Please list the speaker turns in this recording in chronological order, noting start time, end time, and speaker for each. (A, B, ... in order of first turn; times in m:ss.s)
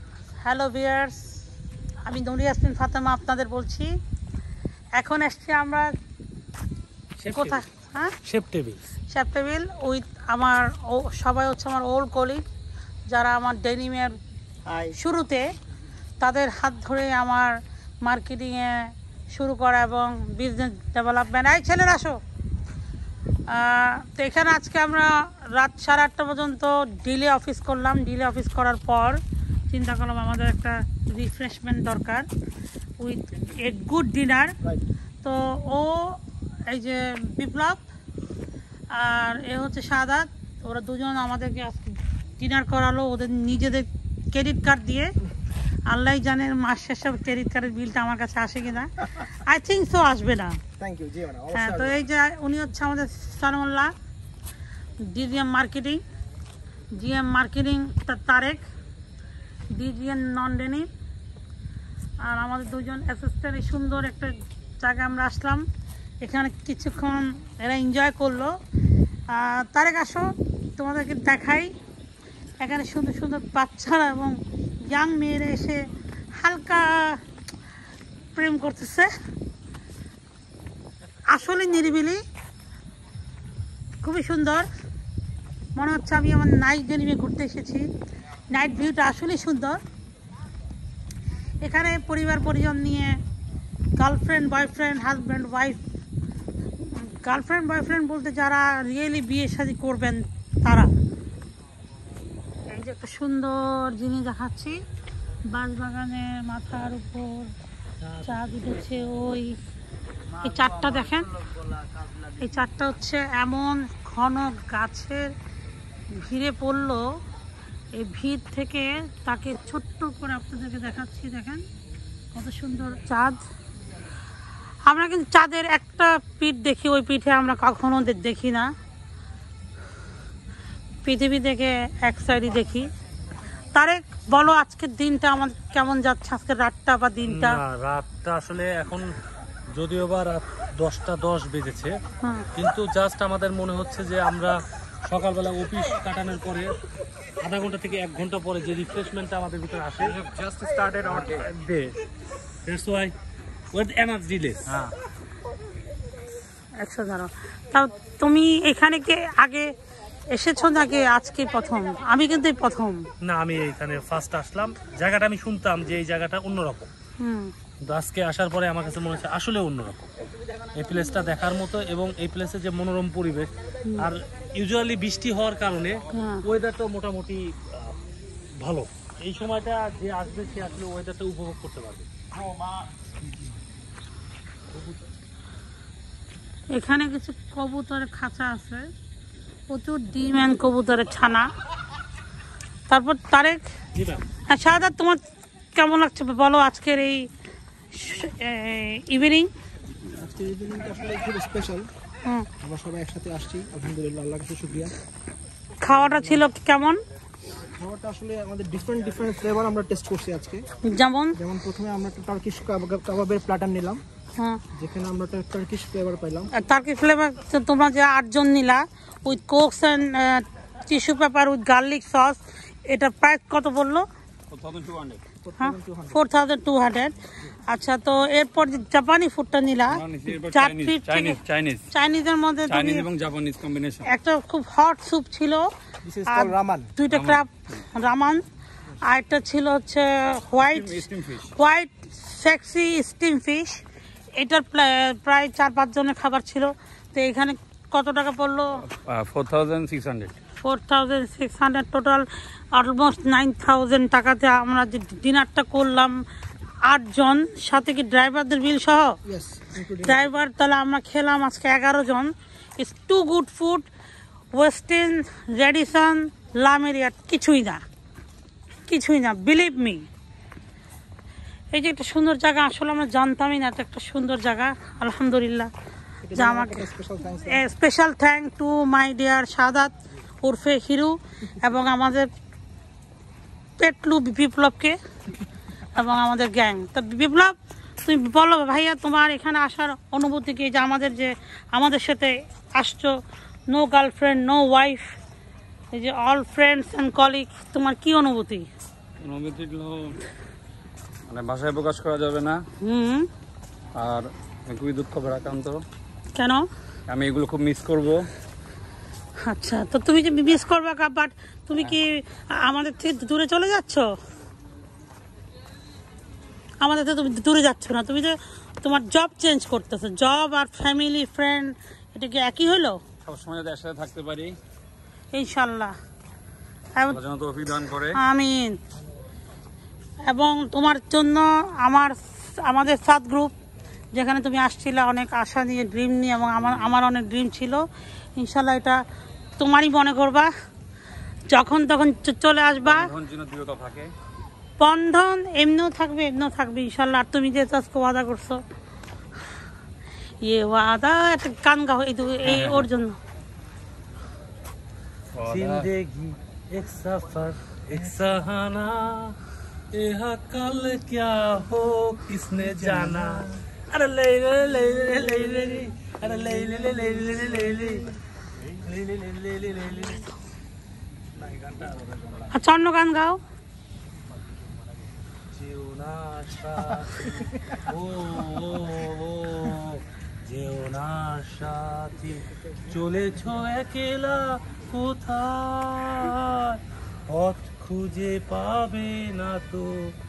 0:00.4-0:01.4 A
0:02.0-0:03.9 A
0:05.0-0:05.9 A
0:07.2-0:07.6 B
0:07.3-0:08.2 A
0:08.2-0:08.8 B
0:09.1-0:12.4 A
0:13.1-0:14.2 A
0:14.7-0:15.5 A
0:16.2-0:22.2 A
0:23.5-0:32.3 A
0:33.0-0:34.6 A
0:35.2-0:37.8 A
0:38.9-0:45.1 A
0:45.9-0:50.6 A
0:50.8-0:52.0 C
0:51.5-0:54.0 A
0:55.0-0:56.0 A
0:56.9-0:58.6 A
0:59.7-1:00.9 A
1:02.2-1:05.6 A
1:06.2-1:08.6 A
1:09.3-1:11.7 A
1:12.6-1:17.2 A
1:18.4-1:19.1 A
1:21.3-1:22.2 A
1:24.0-1:24.7 A
1:25.8-1:27.9 A
1:28.5-1:29.8 A
1:31.6-1:33.2 A
1:34.0-1:35.8 A
1:36.8-1:40.9 A
1:42.7-1:44.8 A
1:45.5-1:47.5 A
1:48.0-1:48.6 B
1:48.2-1:49.6 A
1:50.3-1:51.5 A
1:52.2-1:55.3 A
1:56.1-1:57.1 A
1:57.9-2:01.6 A
2:02.3-2:03.4 A
2:04.9-2:08.7 A
2:11.0-2:12.9 A
2:13.8-2:17.6 A
2:17.3-2:19.1 B
2:19.8-2:22.0 B
2:22.2-2:22.5 A
2:22.6-2:24.6 B
2:25.1-2:26.7 B
2:27.4-2:30.2 B
2:30.0-2:31.5 C
2:31.1-2:31.9 B
2:32.7-2:33.1 B
2:33.7-2:35.0 B
2:36.8-2:39.7 A
2:40.3-2:43.1 A
2:43.2-2:46.9 B
2:47.2-2:47.5 A
2:47.8-2:50.1 B
2:50.8-2:58.0 B
2:56.1-2:56.5 A
2:58.6-3:02.1 B
3:04.7-3:05.0 B
3:06.7-3:08.8 A
3:09.7-3:11.5 A
3:12.9-3:13.6 A
3:14.0-3:14.2 B
3:14.5-3:15.2 A
3:15.8-3:17.3 A
3:17.9-3:19.5 A
3:20.2-3:21.9 C
3:22.6-3:24.9 C
3:25.8-3:27.0 A
3:25.9-3:26.4 C
3:27.8-3:30.7 C
3:30.9-3:31.4 A
3:31.4-3:34.0 C
3:34.7-3:36.5 C
3:36.5-3:44.1 A
3:44.5-3:45.2 D
3:45.4-3:46.2 C
3:45.6-3:51.4 A
3:49.9-3:51.8 D
3:51.9-3:53.1 A
3:52.7-3:54.1 D
3:54.0-3:55.7 A
3:56.0-3:56.9 C
3:56.3-3:58.4 A
3:57.1-3:57.4 D
3:59.0-4:03.8 A
4:00.6-4:01.5 D
4:04.4-4:08.8 A
4:08.9-4:10.4 D
4:10.6-4:16.2 A
4:16.9-4:19.2 A
4:19.3-4:20.3 C
4:20.0-4:23.9 A
4:24.5-4:27.8 A
4:28.9-4:30.1 A
4:31.7-4:35.7 A
4:36.2-4:37.6 C
4:36.3-4:42.3 A
4:43.8-4:45.0 A
4:45.9-4:55.1 A
4:55.9-4:58.7 A
4:59.2-5:00.2 D
5:01.3-5:02.6 D
5:02.8-5:03.3 A
5:04.0-5:05.8 D
5:06.4-5:06.7 A
5:07.1-5:08.2 D
5:09.4-5:14.1 A
5:16.8-5:23.0 A
5:23.2-5:24.6 D
5:25.3-5:26.0 A
5:27.1-5:28.2 D
5:28.2-5:28.8 A
5:30.2-5:33.5 A
5:34.1-5:37.8 A
5:38.4-5:39.0 A
5:39.6-5:40.5 A
5:41.5-5:43.1 A
5:42.8-5:44.1 D
5:44.8-5:48.6 A
5:50.4-5:53.2 A
5:52.5-5:52.9 D
5:55.4-5:55.9 D
5:55.5-5:59.4 B
5:59.9-6:08.1 B
6:08.7-6:10.3 B
6:11.4-6:12.5 B
6:12.5-6:13.4 A
6:15.5-6:30.1 B